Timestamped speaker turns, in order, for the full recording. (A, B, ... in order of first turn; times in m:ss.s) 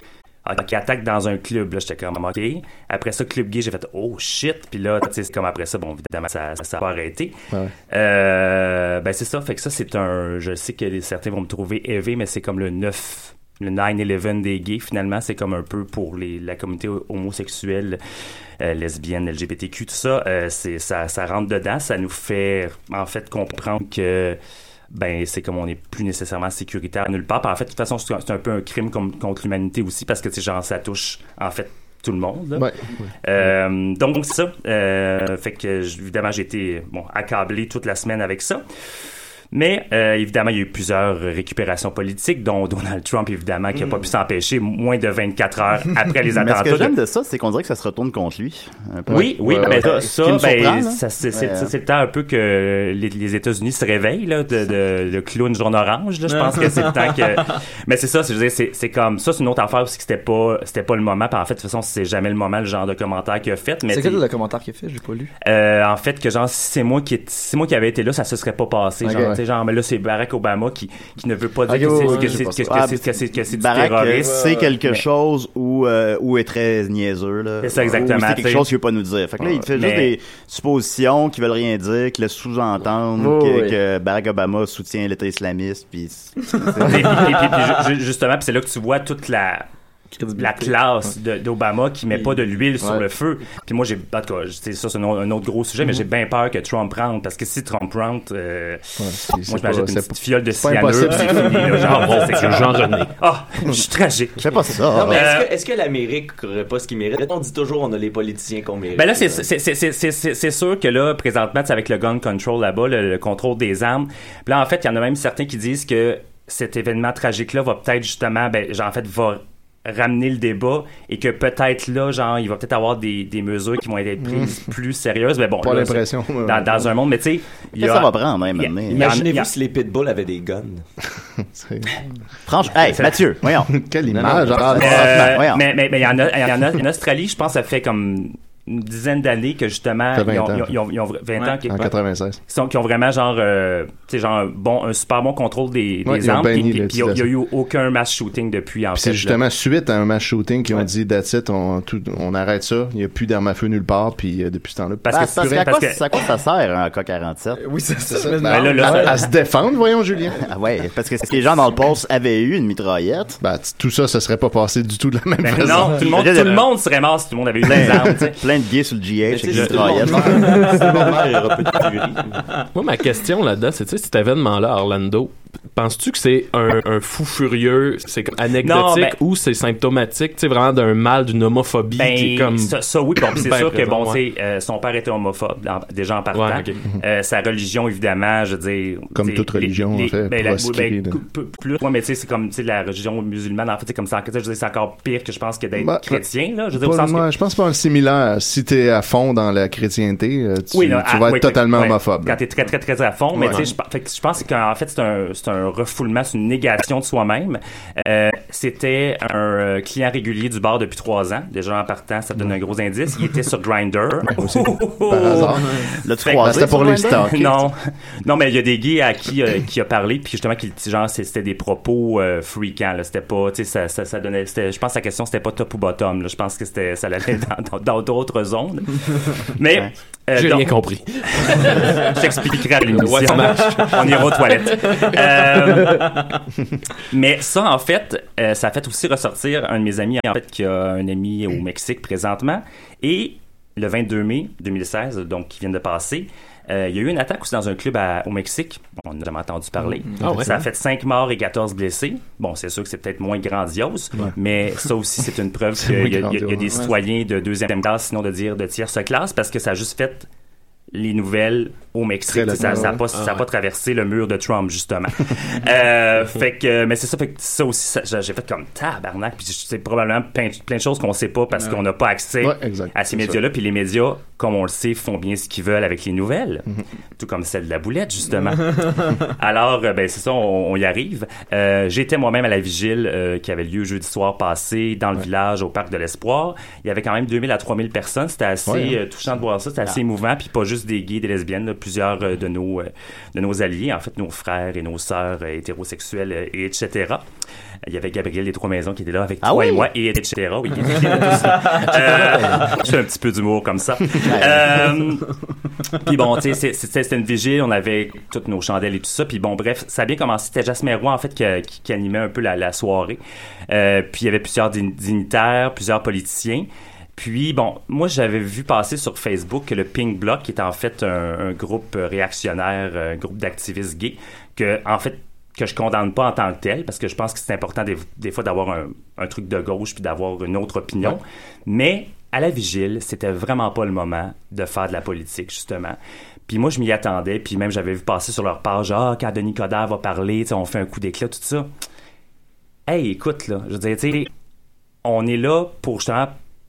0:00.4-0:07.4 A
0:07.9-0:18.0 A
0:18.6-0:24.4 A
0:24.9-0:32.7 A
0:32.6-0:33.5 B
0:33.2-0:38.6 A
0:39.5-0:47.0 A
0:46.3-0:51.7 C
0:49.1-0:50.1 B
0:49.1-1:04.2 A
1:03.9-1:05.3 D
1:05.4-1:14.8 A
1:09.0-1:09.4 D
1:11.7-1:12.6 D
1:11.9-1:12.9 B
1:12.7-1:27.4 C
1:17.6-1:18.7 A
1:19.7-1:20.1 A
1:23.2-1:23.8 D
1:26.8-1:29.6 A
1:30.2-1:30.7 D
1:30.4-1:45.5 A
1:39.0-1:42.6 B
1:41.9-1:43.2 E
1:44.4-1:45.2 C
1:44.9-1:49.4 F
1:49.0-2:09.5 A
2:04.2-2:04.7 B
2:05.6-2:07.0 B
2:07.8-2:09.1 C
2:08.9-2:10.8 F
2:11.4-2:11.9 B
2:12.5-2:13.7 C
2:12.8-2:13.2 A
2:13.6-2:15.4 B
2:14.1-2:14.6 F
2:14.5-2:15.7 C
2:14.6-2:29.4 A
2:20.1-2:20.8 B
2:21.7-2:22.4 B
2:26.0-2:27.3 B
2:28.9-2:35.6 B
2:35.0-2:36.1 A
2:35.1-2:37.6 C
2:37.7-2:39.2 D
2:38.1-2:40.4 B
2:38.4-2:39.3 A
2:40.4-2:43.4 C
2:43.4-2:46.1 B
2:45.4-2:48.4 A
2:46.0-2:46.7 C
2:47.6-2:50.8 C
2:49.3-2:52.5 F
2:52.7-3:04.2 E
2:58.6-2:59.2 A
3:02.0-3:17.3 A
3:06.3-3:06.8 E
3:09.1-3:11.2 B
3:15.8-3:22.4 B
3:20.7-3:50.8 A
3:23.3-3:23.7 B
3:34.2-3:37.7 B
3:36.0-3:37.4 C
3:50.3-3:52.2 E
3:51.3-3:56.3 A
3:52.8-3:55.6 E
3:57.1-4:20.3 A
4:10.2-4:10.5 E
4:15.8-4:16.9 B
4:20.9-4:36.6 A
4:22.3-4:23.1 B
4:23.1-4:23.4 E
4:32.4-4:33.4 B
4:37.2-4:57.2 A
4:48.7-4:49.0 B
4:57.9-5:05.3 A
4:59.4-4:59.9 C
5:04.2-5:04.9 C
5:05.9-5:41.7 A
5:42.9-5:44.3 A
5:45.0-5:46.4 A